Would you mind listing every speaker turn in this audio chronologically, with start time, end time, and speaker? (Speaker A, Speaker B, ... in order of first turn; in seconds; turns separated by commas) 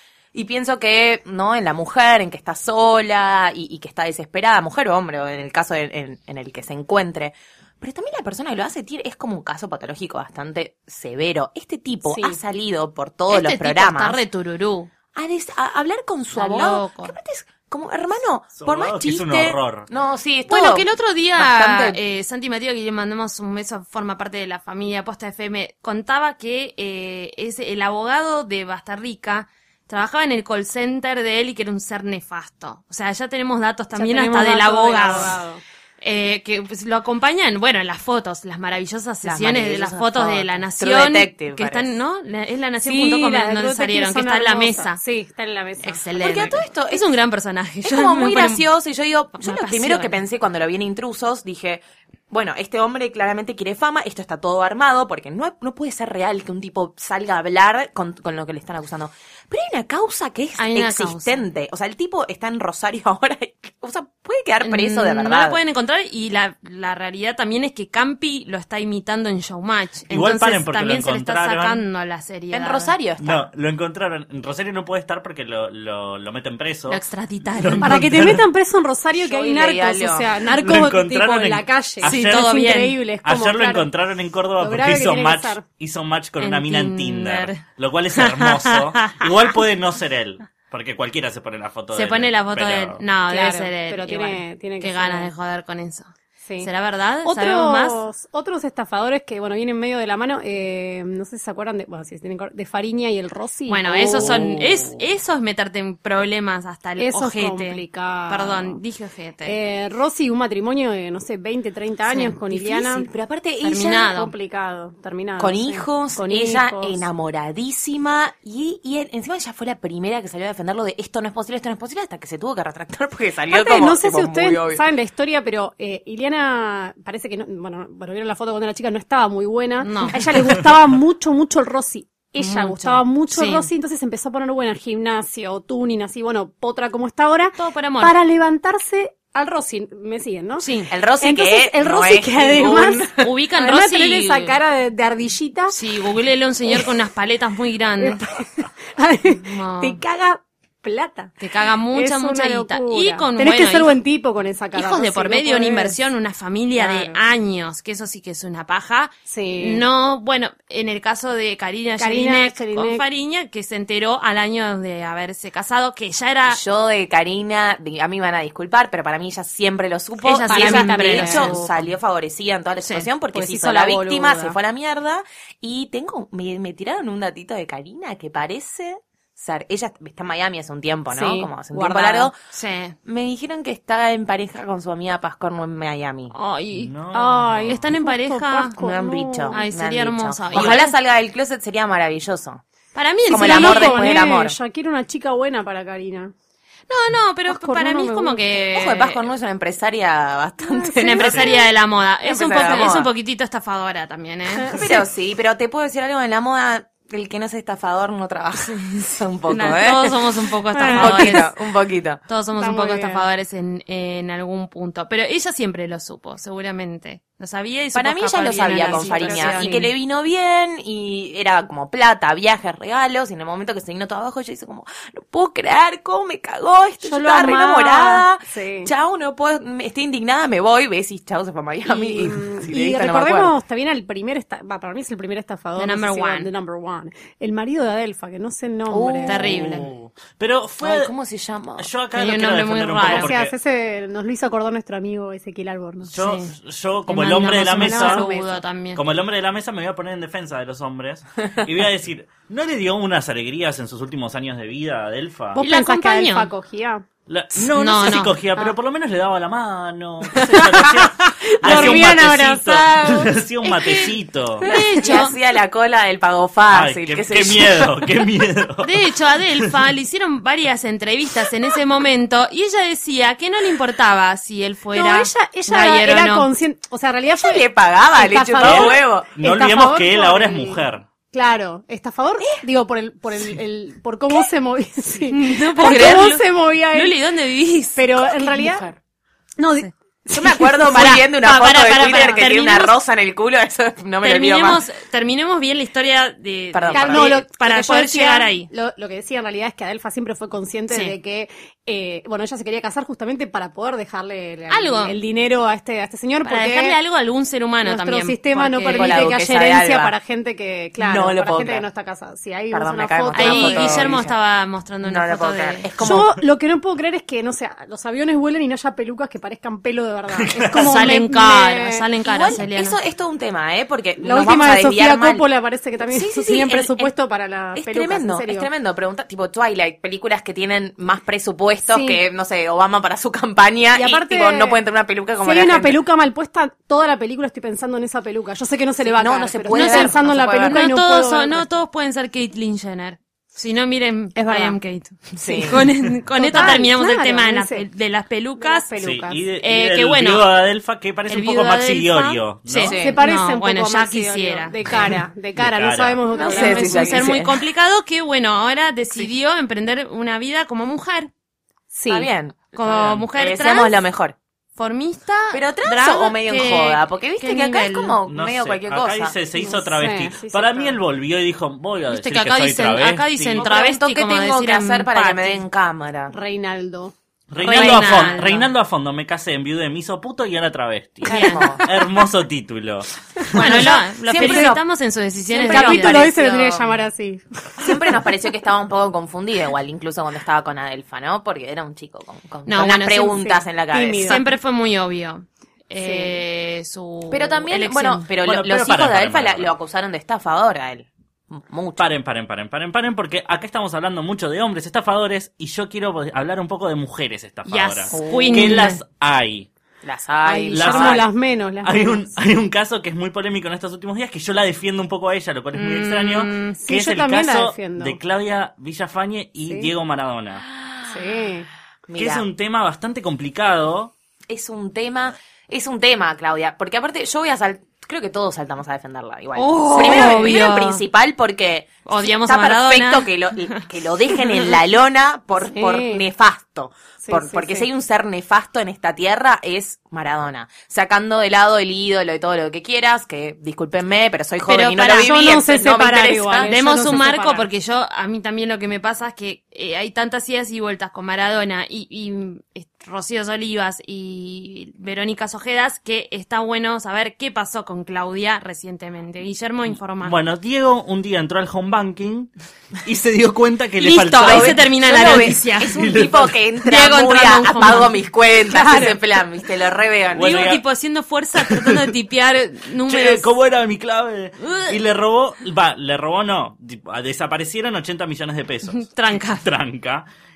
Speaker A: 0.3-14.2, Speaker B: 12.1-12.4, Speaker C: 13.3-14.9, Speaker A: 15.1-22.0, Speaker C: 16.3-17.1, Speaker D: 18.6-19.9, Speaker C: 20.5-35.4, Speaker B: 33.9-35.6, Speaker C: 36.0-45.0, Speaker A: 39.2-42.0, Speaker B: 42.8-46.0, Speaker C: 45.8-48.6, Speaker A: 46.1-47.1, Speaker A: 47.8-65.6, Speaker C: 49.3-50.2, Speaker C: 60.6-61.4, Speaker C: 64.6-72.9, Speaker D: 70.1-71.8, Speaker A: 72.5-73.5, Speaker D: 73.2-78.4, Speaker C: 76.9-78.0, Speaker B: 77.8-83.9, Speaker A: 79.1-80.3, Speaker D: 80.5-82.5, Speaker C: 82.0-83.0, Speaker D: 83.2-93.0, Speaker B: 84.6-85.6, Speaker C: 86.4-87.6, Speaker C: 88.2-89.3, Speaker C: 91.9-96.1, Speaker B: 93.3-95.3, Speaker C: 96.6-98.0, Speaker B: 97.2-104.4, Speaker C: 103.7-109.5, Speaker A: 104.0-104.6, Speaker B: 107.0-108.8, Speaker B: 109.4-113.1, Speaker C: 112.1-112.3, Speaker A: 112.5-114.2, Speaker C: 113.6-114.3, Speaker B: 114.2-117.0, Speaker A: 115.4-124.8, Speaker B: 123.5-140.7, Speaker C: 129.8-130.2, Speaker C: 132.4-133.7, Speaker C: 137.6-138.2, Speaker C: 140.6-140.9, Speaker A: 140.9-143.3, Speaker B: 141.2-145.7, Speaker C: 142.6-144.6, Speaker C: 145.7-148.3, Speaker B: 148.0-156.0, Speaker C: 149.3-150.0, Speaker C: 151.4-153.9, Speaker C: 154.7-166.6, Speaker B: 156.8-157.2, Speaker B: 159.3-159.8, Speaker B: 162.0-163.0, Speaker A: 166.5-182.3, Speaker C: 170.2-171.8, Speaker B: 170.4-171.6, Speaker C: 172.8-173.1, Speaker B: 173.3-174.6, Speaker B: 181.1-182.3, Speaker C: 182.5-182.9, Speaker A: 183.0-186.3, Speaker C: 186.3-186.9, Speaker D: 186.7-187.8, Speaker B: 187.1-189.6, Speaker C: 187.7-188.8, Speaker A: 188.8-192.6, Speaker C: 189.5-190.9, Speaker C: 192.9-194.2, Speaker B: 193.3-196.3, Speaker A: 193.3-194.6, Speaker C: 196.9-199.2, Speaker B: 197.5-198.5, Speaker A: 198.7-201.6, Speaker B: 200.6-201.6, Speaker C: 201.0-204.8, Speaker A: 202.2-203.1, Speaker B: 204.6-205.1, Speaker A: 204.7-210.1, Speaker C: 208.6-211.5, Speaker B: 210.7-211.4, Speaker A: 210.9-212.2, Speaker C: 212.3-219.9, Speaker B: 212.6-213.2, Speaker A: 217.9-233.5, Speaker B: 218.5-219.9, Speaker B: 227.0-228.9, Speaker B: 231.8-239.4, Speaker C: 235.8-236.5, Speaker A: 238.9-239.6, Speaker C: 239.2-239.9, Speaker D: 239.5-241.1, Speaker A: 240.8-241.9, Speaker D: 241.8-243.5, Speaker C: 242.1-243.3, Speaker B: 243.1-246.1, Speaker C: 246.1-246.5, Speaker D: 246.1-248.2, Speaker C: 247.1-249.0, Speaker B: 247.5-248.5, Speaker D: 248.9-255.6, Speaker B: 255.5-257.0, Speaker C: 255.6-256.5, Speaker D: 257.3-264.6, Speaker C: 257.7-258.4, Speaker B: 260.4-263.4, Speaker A: 261.7-262.1, Speaker C: 263.6-265.3, Speaker B: 264.6-265.3, Speaker A: 264.6-268.0, Speaker D: 266.7-269.1, Speaker C: 268.8-276.5, Speaker B: 274.9-287.1, Speaker A: 277.4-279.4, Speaker D: 278.6-281.1, Speaker C: 285.3-288.3, Speaker A: 285.8-286.3, Speaker B: 287.9-288.9, Speaker A: 288.4-288.9, Speaker B: 289.6-291.4, Speaker A: 290.3-294.8, Speaker C: 290.9-292.9, Speaker B: 292.0-292.4, Speaker C: 294.2-298.7, Speaker A: 296.7-297.4, Speaker B: 296.9-307.0, Speaker C: 300.9-301.1, Speaker C: 304.7-305.1, Speaker C: 306.4-309.3, Speaker B: 307.8-314.3, Speaker A: 308.9-310.1, Speaker A: 311.0-311.9, Speaker A: 312.7-314.3, Speaker C: 313.3-315.9, Speaker A: 315.0-316.3, Speaker B: 316.0-322.1, Speaker D: 320.3-320.9, Speaker C: 320.7-323.0, Speaker A: 322.2-325.5, Speaker B: 324.2-328.7, Speaker A: 326.1-327.1, Speaker A: 327.7-336.0, Speaker B: 331.9-332.2, Speaker B: 333.9-334.8, Speaker B: 335.4-341.6, Speaker A: 339.0-340.9, Speaker C: 339.7-348.9, Speaker B: 344.4-344.8, Speaker A: 345.4-345.9, Speaker B: 346.4-347.8, Speaker B: 348.6-349.4, Speaker D: 349.0-353.0, Speaker C: 349.6-350.5, Speaker C: 351.3-354.8, Speaker A: 352.8-353.2, Speaker B: 352.9-357.3, Speaker D: 355.6-356.2, Speaker A: 356.3-357.6, Speaker C: 356.4-361.3, Speaker B: 361.9-362.3, Speaker A: 362.1-364.4, Speaker C: 362.7-364.0, Speaker D: 363.0-363.2, Speaker C: 364.8-368.1, Speaker A: 365.5-369.4, Speaker D: 368.3-373.7, Speaker B: 369.5-371.0, Speaker C: 372.1-375.6, Speaker A: 373.6-376.3, Speaker B: 376.3-377.1, Speaker D: 377.5-383.4, Speaker C: 377.6-378.7, Speaker A: 377.7-378.0, Speaker A: 381.2-381.9, Speaker C: 381.3-381.8, Speaker B: 383.4-384.7, Speaker A: 383.5-384.8, Speaker C: 383.6-386.4, Speaker A: 385.5-386.9, Speaker B: 385.6-388.2, Speaker A: 387.8-394.4, Speaker C: 392.6-393.6, Speaker B: 393.9-394.4, Speaker C: 394.2-398.3, Speaker B: 396.0-396.4, Speaker A: 397.3-402.1, Speaker D: 398.4-399.7, Speaker D: 402.0-409.7, Speaker C: 407.6-409.0, Speaker A: 408.1-408.8, Speaker A: 410.0-411.2, Speaker B: 410.4-412.3, Speaker D: 410.7-411.3, Speaker D: 411.8-420.6, Speaker C: 415.7-416.8, Speaker B: 416.8-418.2, Speaker A: 420.6-421.4, Speaker B: 421.1-421.7, Speaker A: 422.1-422.5, Speaker D: 422.2-424.1, Speaker A: 424.5-446.7, Speaker C: 429.5-431.0, Speaker B: 429.8-430.5, Speaker C: 432.1-433.8, Speaker C: 434.4-434.6, Speaker B: 435.6-436.2, Speaker B: 437.2-437.9, Speaker B: 444.6-447.7, Speaker C: 446.6-460.4, Speaker D: 460.2-462.5, Speaker D: 463.0-466.6, Speaker C: 464.0-466.2, Speaker A: 464.4-470.5, Speaker C: 466.8-468.2, Speaker B: 468.7-469.1, Speaker D: 470.3-470.8, Speaker C: 470.4-473.5, Speaker D: 471.6-472.1, Speaker D: 473.1-479.1, Speaker C: 474.6-474.9, Speaker C: 478.9-479.7, Speaker D: 479.6-480.2